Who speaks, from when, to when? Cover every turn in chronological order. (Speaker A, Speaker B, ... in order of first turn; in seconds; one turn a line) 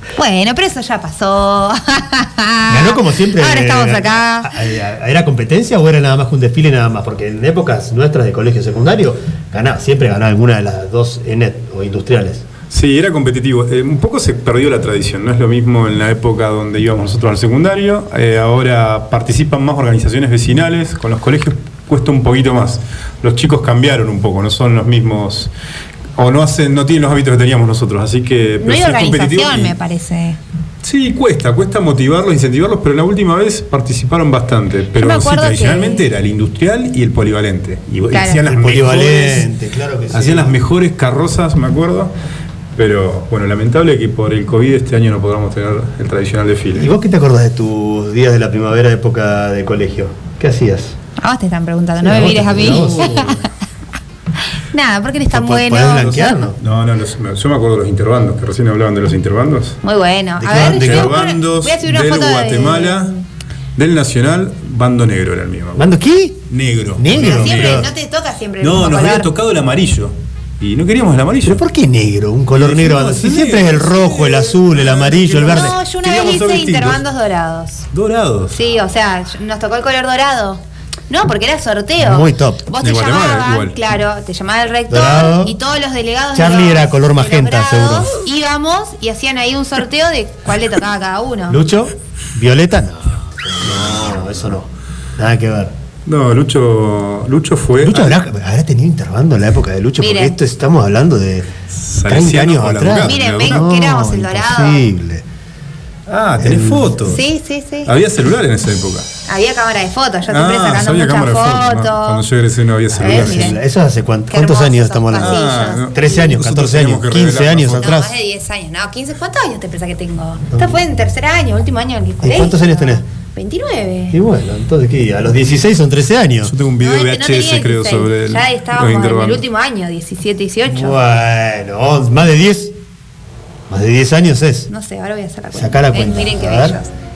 Speaker A: 0.1-4.5
Speaker B: 2.7-12.4
Speaker C: 12.7-25.5
Speaker C: 26.2-29.7
Speaker A: 28.6-30.4
Speaker C: 30.8-39.5
Speaker A: 35.0-36.0
Speaker A: 38.1-38.4
Speaker B: 38.4-40.6
Speaker C: 40.1-42.1
Speaker C: 42.8-46.9
Speaker B: 46.7-50.9
Speaker A: 51.2-53.5
Speaker B: 52.0-53.5
Speaker A: 54.7-56.4
Speaker B: 55.3-56.6
Speaker C: 56.6-59.8
Speaker A: 59.8-63.2
Speaker B: 60.4-61.1
Speaker C: 60.5-63.1
Speaker C: 63.8-65.9
Speaker B: 65.8-66.4
Speaker C: 66.5-67.9
Speaker B: 67.0-67.9
Speaker A: 67.2-69.3
Speaker C: 68.6-71.6
Speaker B: 71.4-75.8
Speaker C: 72.5-77.0
Speaker A: 75.4-77.9
Speaker C: 77.9-78.5
Speaker A: 78.5-91.6
Speaker B: 82.0-82.6
Speaker C: 82.8-83.8
Speaker B: 84.9-85.5
Speaker B: 86.3-88.1
Speaker B: 91.5-95.7
Speaker C: 96.0-98.2
Speaker B: 97.8-101.5
Speaker A: 100.0-100.3
Speaker C: 101.8-103.7
Speaker B: 102.0-105.2
Speaker A: 103.0-104.9
Speaker C: 106.1-107.2
Speaker B: 106.4-107.0
Speaker A: 107.0-107.9
Speaker C: 107.8-109.1
Speaker A: 109.2-112.2
Speaker C: 110.3-113.5
Speaker B: 112.9-118.2
Speaker A: 113.0-113.6
Speaker A: 114.3-115.9
Speaker C: 115.2-117.9
Speaker A: 117.8-124.2
Speaker B: 120.5-120.8
Speaker B: 122.2-123.0
Speaker B: 124.1-126.5
Speaker C: 126.4-129.4
Speaker A: 126.8-131.0
Speaker B: 130.7-132.8
Speaker B: 133.7-134.7
Speaker A: 134.7-136.9
Speaker B: 135.5-136.8